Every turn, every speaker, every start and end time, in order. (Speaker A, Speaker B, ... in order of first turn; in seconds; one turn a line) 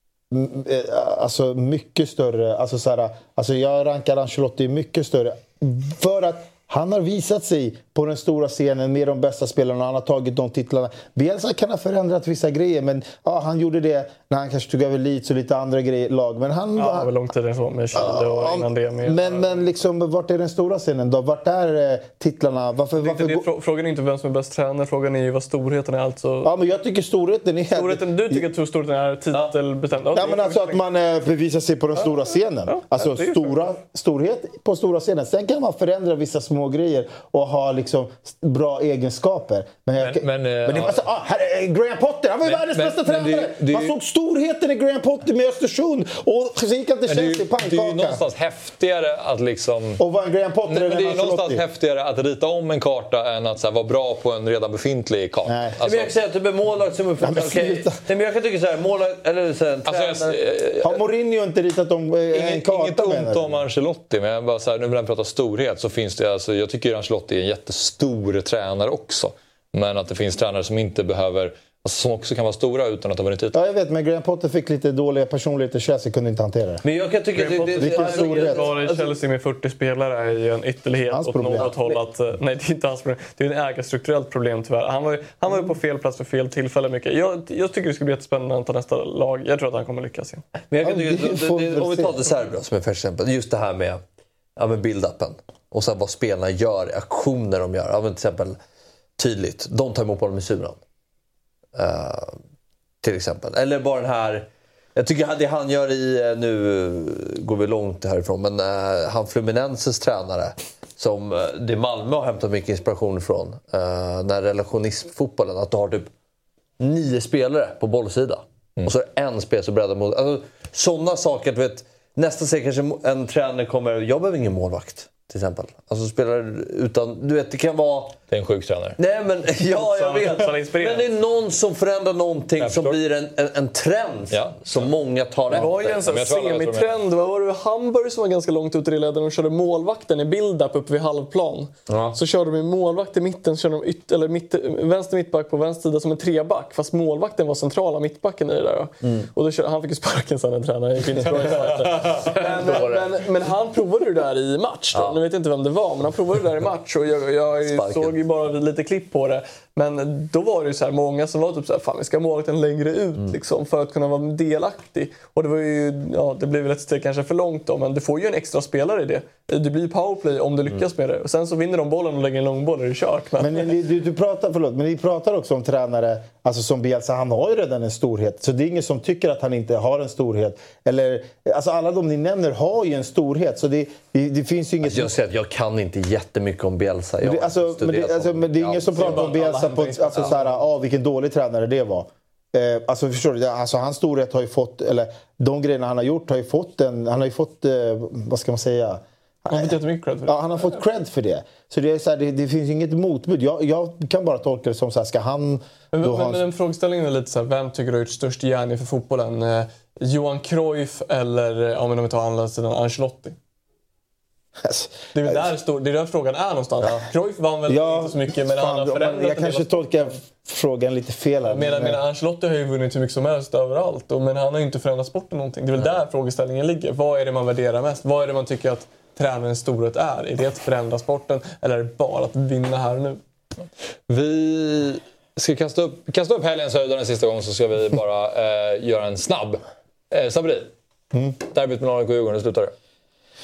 Speaker A: 0.3-17.1
Speaker B: 16.8-19.6
Speaker A: 17.9-23.5
Speaker B: 23.0-26.5
Speaker A: 26.4-28.4
Speaker B: 27.7-30.8
Speaker A: 30.1-48.2
Speaker B: 32.7-33.6
Speaker C: 40.0-41.0
Speaker C: 42.5-43.9
Speaker C: 47.1-50.0
Speaker A: 50.0-51.6
Speaker C: 50.7-56.1
Speaker A: 55.5-55.8
Speaker D: 55.8-60.4
Speaker A: 57.2-58.0
Speaker C: 59.9-61.0
Speaker A: 60.8-63.6
Speaker C: 62.3-73.6
Speaker A: 73.5-76.8
Speaker D: 76.8-79.1
Speaker B: 77.3-90.4
Speaker A: 77.8-78.7
Speaker A: 81.1-81.8
Speaker D: 90.7-94.0
Speaker A: 90.8-92.3
Speaker D: 94.6-98.6
Speaker D: 99.2-100.8
Speaker D: 101.8-102.4
Speaker D: 103.0-116.1
Speaker D: 116.8-128.2
Speaker C: 128.3-129.0
Speaker D: 129.0-136.1
Speaker B: 129.7-131.1
Speaker C: 132.6-133.0
Speaker C: 134.3-134.9
Speaker C: 135.5-136.9
Speaker B: 135.5-173.7
Speaker D: 141.9-142.2
Speaker D: 149.0-149.3
Speaker C: 151.8-152.3
Speaker D: 152.0-153.2
Speaker D: 154.9-155.2
Speaker D: 157.7-158.2
Speaker A: 173.4-185.2
Speaker D: 184.8-189.4
Speaker A: 187.2-206.4
Speaker B: 189.0-190.6
Speaker B: 199.5-200.8
Speaker B: 205.9-213.4
Speaker A: 214.6-215.5
Speaker B: 215.1-220.2
Speaker A: 217.7-222.0
Speaker B: 221.5-233.2
Speaker C: 234.1-240.7
Speaker C: 241.4-242.7